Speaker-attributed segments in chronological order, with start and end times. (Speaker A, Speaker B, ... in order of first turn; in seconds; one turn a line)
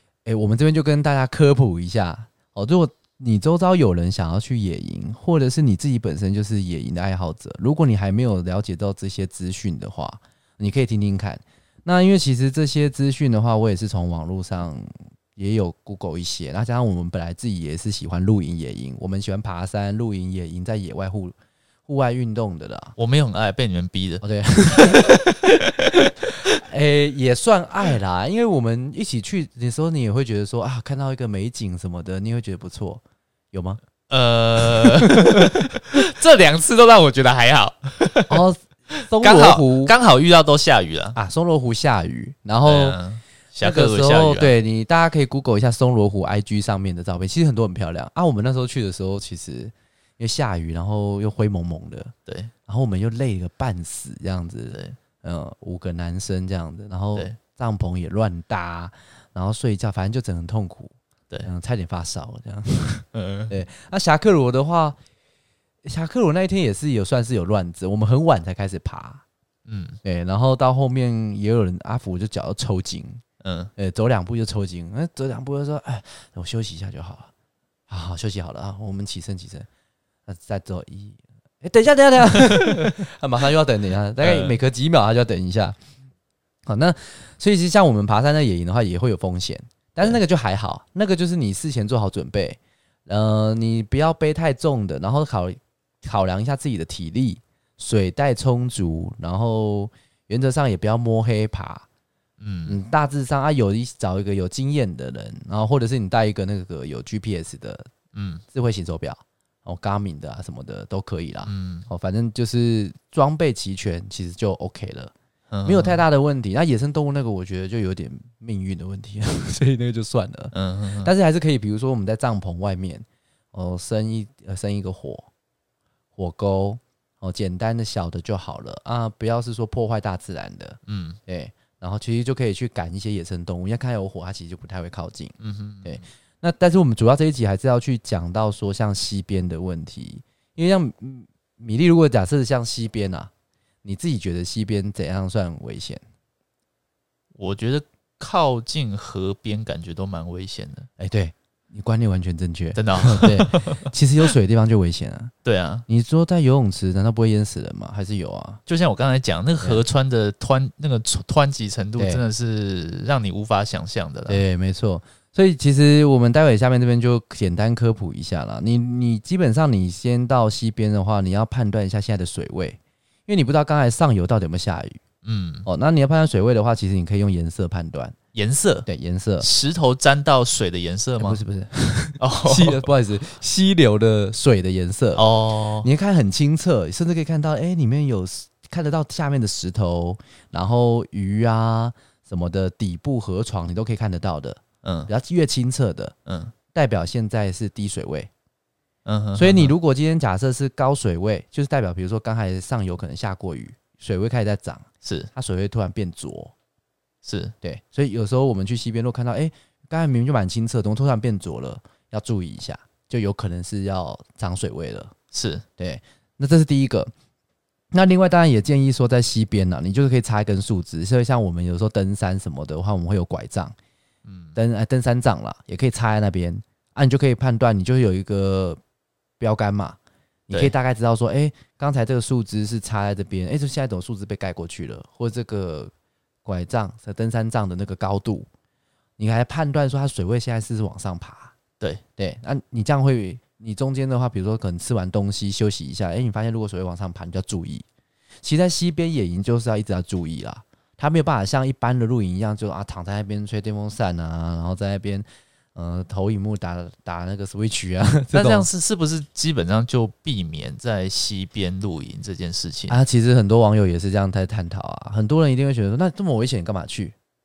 Speaker A: 0.2-21.3
Speaker A: 21.9-22.9
Speaker B: 23.0-25.9
Speaker A: 24.2-25.3
Speaker A: 26.6-33.8
Speaker B: 34.1-38.4
Speaker A: 34.8-35.6
Speaker A: 38.3-39.9
Speaker B: 39.0-41.2
Speaker A: 41.1-43.0
Speaker B: 42.6-44.5
Speaker A: 43.6-52.1
Speaker B: 52.3-52.5
Speaker A: 52.7-60.9
Speaker B: 54.7-55.0
Speaker A: 61.4-65.0
Speaker B: 63.1-63.5
Speaker A: 65.8-69.2
Speaker B: 69.7-70.0
Speaker A: 70.0-73.2
Speaker B: 73.4-73.7
Speaker A: 73.8-77.3
Speaker A: 77.9-79.7
Speaker A: 80.3-85.8
Speaker B: 82.5-82.9
Speaker B: 84.2-84.5
Speaker A: 86.7-101.8
Speaker B: 102.4-102.8
Speaker A: 102.7-107.9
Speaker B: 108.1-108.4
Speaker A: 108.5-115.1
Speaker B: 111.4-111.9
Speaker B: 115.5-116.0
Speaker A: 115.6-125.3
Speaker B: 120.5-121.1
Speaker A: 126.2-143.3
Speaker B: 130.9-131.2
Speaker B: 135.4-136.0
Speaker A: 143.8-146.0
Speaker B: 147.3-150.9
Speaker A: 151.0-155.3
Speaker B: 152.7-153.9
Speaker B: 155.4-155.8
Speaker A: 155.9-158.6
Speaker B: 158.7-164.4
Speaker A: 162.0-162.2
Speaker A: 164.3-175.0
Speaker B: 175.2-175.7
Speaker A: 175.6-178.2
Speaker B: 178.3-178.9
Speaker A: 178.8-179.5
Speaker B: 179.4-181.4
Speaker A: 181.2-185.2
Speaker B: 182.2-182.9
Speaker B: 185.1-185.9
Speaker A: 185.8-196.1
Speaker B: 194.8-195.1
Speaker B: 196.3-196.5
Speaker A: 196.7-198.3
Speaker B: 199.0-199.7
Speaker A: 199.3-206.5
Speaker B: 205.0-205.3
Speaker B: 207.2-207.5
Speaker A: 207.6-215.1
Speaker B: 215.3-215.6
Speaker A: 215.8-217.1
Speaker A: 217.9-223.7
Speaker B: 224.2-224.6
Speaker A: 224.5-228.8
Speaker A: 229.4-230.0
Speaker A: 230.5-235.9
Speaker A: 236.4-238.5
Speaker A: 239.2-241.5
Speaker A: 242.2-247.8
Speaker A: 248.4-258.7
Speaker B: 258.3-263.0
Speaker A: 262.9-267.1